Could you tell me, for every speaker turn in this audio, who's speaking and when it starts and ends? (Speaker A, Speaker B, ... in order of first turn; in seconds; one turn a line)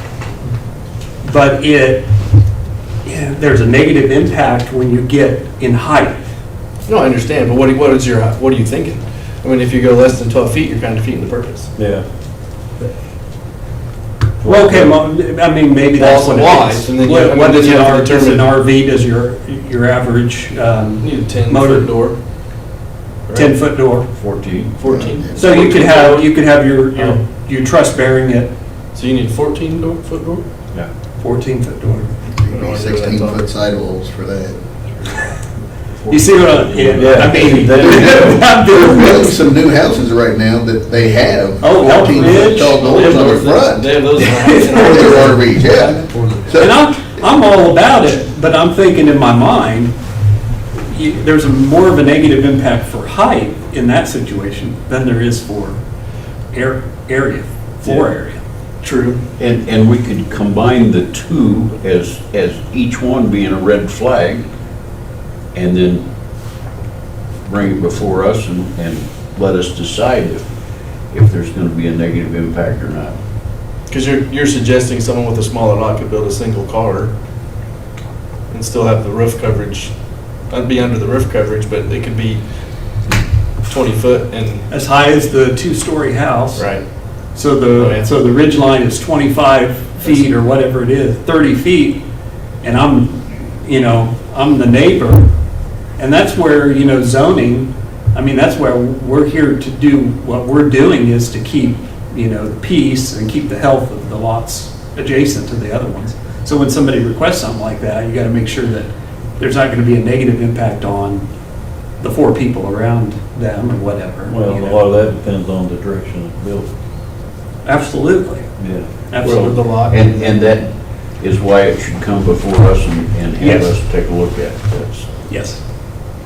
Speaker A: 1.2-2.1
Speaker A: 3.0-6.2
Speaker B: 6.8-11.7
Speaker C: 11.8-12.1
Speaker C: 14.4-15.1
Speaker A: 14.4-21.9
Speaker B: 15.9-18.5
Speaker B: 21.0-22.2
Speaker B: 23.3-23.6
Speaker A: 23.4-24.1
Speaker D: 24.1-24.9
Speaker B: 24.8-27.2
Speaker E: 24.9-25.4
Speaker A: 25.4-28.5
Speaker B: 28.9-30.5
Speaker A: 31.2-32.1
Speaker E: 32.3-34.6
Speaker B: 32.5-33.5
Speaker B: 35.9-37.0
Speaker A: 36.1-39.4
Speaker D: 36.6-37.6
Speaker C: 36.9-38.5
Speaker E: 37.8-46.7
Speaker A: 41.6-43.1
Speaker B: 42.8-46.5
Speaker A: 46.6-50.0
Speaker A: 50.8-55.8
Speaker A: 56.5-58.4
Speaker B: 58.8-59.2
Speaker D: 59.4-64.5
Speaker D: 65.5-66.1
Speaker D: 67.5-73.2
Speaker B: 73.9-77.1
Speaker B: 78.5-83.0
Speaker B: 83.6-84.7
Speaker A: 84.7-92.0
Speaker B: 86.6-86.8
Speaker B: 87.8-88.1
Speaker A: 92.6-95.3
Speaker A: 96.0-111.3
Speaker A: 112.0-114.8
Speaker C: 114.3-116.7
Speaker A: 117.7-119.6
Speaker C: 118.6-119.1
Speaker B: 119.2-120.3
Speaker D: 119.2-125.1
Speaker A: 123.4-123.7
Speaker A: 125.3-125.6